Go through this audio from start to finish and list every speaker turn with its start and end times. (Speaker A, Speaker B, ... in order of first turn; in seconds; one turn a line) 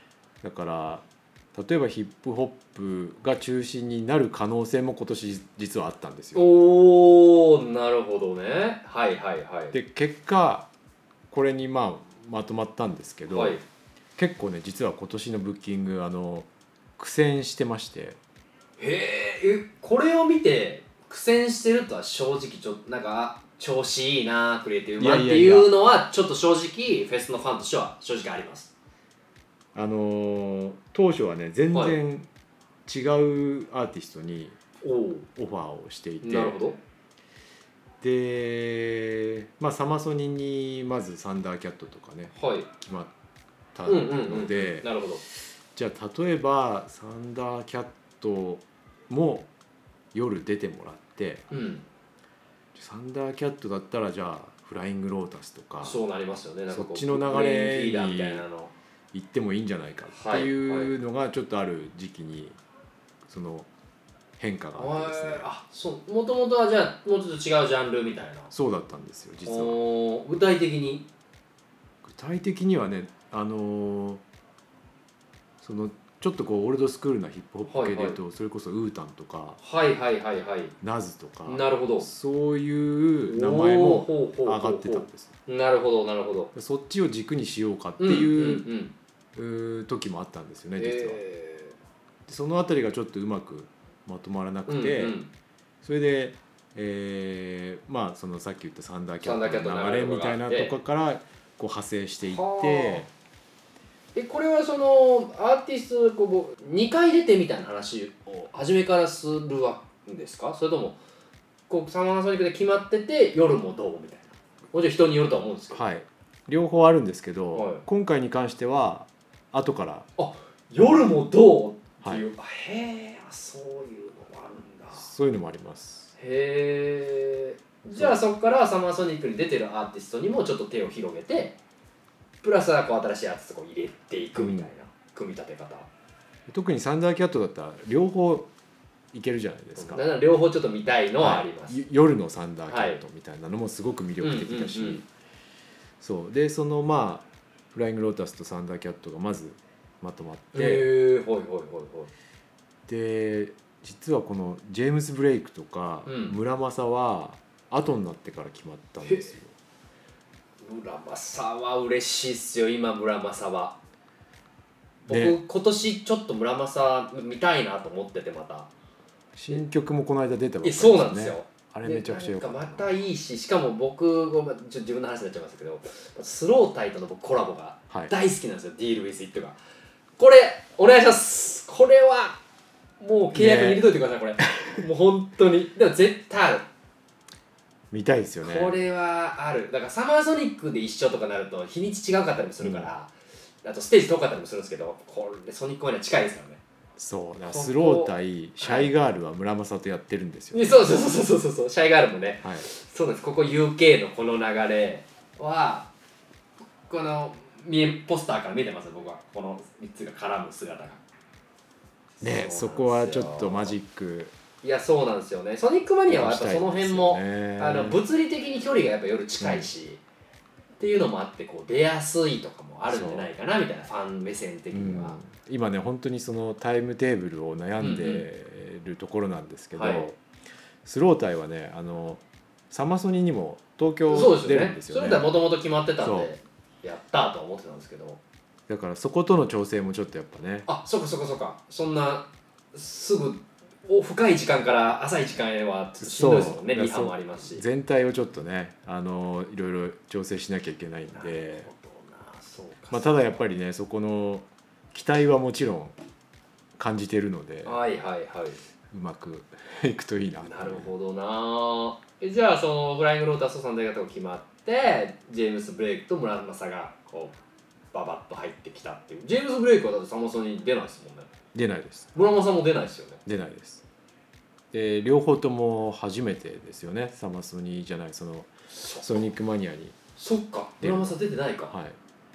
Speaker A: 0.4-6.4
Speaker B: 6.3-9.7
Speaker A: 9.7-10.7
Speaker A: 11.3-13.6
Speaker B: 13.3-13.6
Speaker A: 14.2-18.2
Speaker B: 18.8-28.7
Speaker A: 25.0-25.7
Speaker A: 29.7-32.3
Speaker B: 31.7-32.0
Speaker A: 32.9-34.6
Speaker B: 34.8-35.3
Speaker A: 35.4-36.6
Speaker B: 36.2-36.8
Speaker A: 38.0-43.1
Speaker B: 42.3-42.7
Speaker A: 43.7-49.5
Speaker B: 43.9-45.2
Speaker A: 50.1-51.5
Speaker B: 51.5-51.8
Speaker A: 52.7-56.0
Speaker B: 55.8-58.7
Speaker A: 56.7-58.4
Speaker A: 59.1-62.6
Speaker B: 60.1-60.9
Speaker A: 63.2-63.7
Speaker A: 64.4-65.5
Speaker B: 64.8-68.5
Speaker A: 68.5-69.8
Speaker B: 69.4-71.1
Speaker A: 72.0-74.2
Speaker A: 75.6-79.6
Speaker B: 77.7-78.2
Speaker B: 79.6-80.7
Speaker A: 80.8-85.3
Speaker B: 81.5-82.1
Speaker B: 83.3-86.5
Speaker A: 86.5-88.7
Speaker B: 88.0-88.9
Speaker A: 89.3-91.2
Speaker B: 90.8-91.8
Speaker A: 92.3-95.2
Speaker B: 94.7-95.3
Speaker A: 95.8-103.1
Speaker B: 99.2-100.8
Speaker B: 102.2-103.1
Speaker B: 104.1-111.0
Speaker B: 111.7-115.8
Speaker A: 115.7-120.1
Speaker B: 117.5-117.8
Speaker B: 120.2-125.1
Speaker A: 124.9-126.1
Speaker B: 126.2-131.6
Speaker B: 132.4-135.9
Speaker A: 134.4-134.7
Speaker A: 136.5-138.5
Speaker A: 139.1-140.0
Speaker B: 139.8-141.8
Speaker A: 141.2-145.1
Speaker B: 142.7-143.0
Speaker B: 144.2-145.0
Speaker A: 146.0-150.9
Speaker B: 150.5-152.1
Speaker A: 152.9-159.5
Speaker B: 156.1-156.4
Speaker B: 159.0-159.3
Speaker B: 160.6-163.8
Speaker B: 165.1-168.7
Speaker A: 165.1-165.4
Speaker A: 169.3-173.0
Speaker B: 170.6-179.6
Speaker B: 180.2-182.4
Speaker B: 183.0-186.7
Speaker A: 183.3-183.9
Speaker A: 187.9-188.8
Speaker B: 188.4-193.1
Speaker A: 192.6-192.9
Speaker B: 193.6-196.6
Speaker A: 197.0-200.8
Speaker B: 197.5-198.9
Speaker B: 200.5-205.9
Speaker A: 202.4-202.7
Speaker B: 206.9-211.0
Speaker B: 212.2-213.7
Speaker A: 212.2-214.3
Speaker B: 214.6-220.0
Speaker A: 216.1-218.0
Speaker A: 219.4-219.7
Speaker B: 220.8-225.2
Speaker A: 222.9-223.3
Speaker A: 224.7-230.2
Speaker B: 227.8-228.2
Speaker B: 229.7-230.1
Speaker A: 230.8-235.3
Speaker B: 234.1-238.2
Speaker A: 236.0-236.3
Speaker A: 238.7-240.7
Speaker B: 240.7-247.6
Speaker A: 246.0-251.7
Speaker B: 251.1-253.4
Speaker A: 252.9-255.9
Speaker A: 256.8-257.8
Speaker B: 257.6-258.6
Speaker A: 258.9-260.9
Speaker B: 260.4-267.4
Speaker B: 267.9-271.3
Speaker A: 271.5-272.1
Speaker B: 272.1-273.2
Speaker A: 273.2-273.8
Speaker A: 274.7-280.0
Speaker B: 278.7-279.3
Speaker B: 280.2-281.7
Speaker A: 280.8-281.2
Speaker A: 281.7-282.0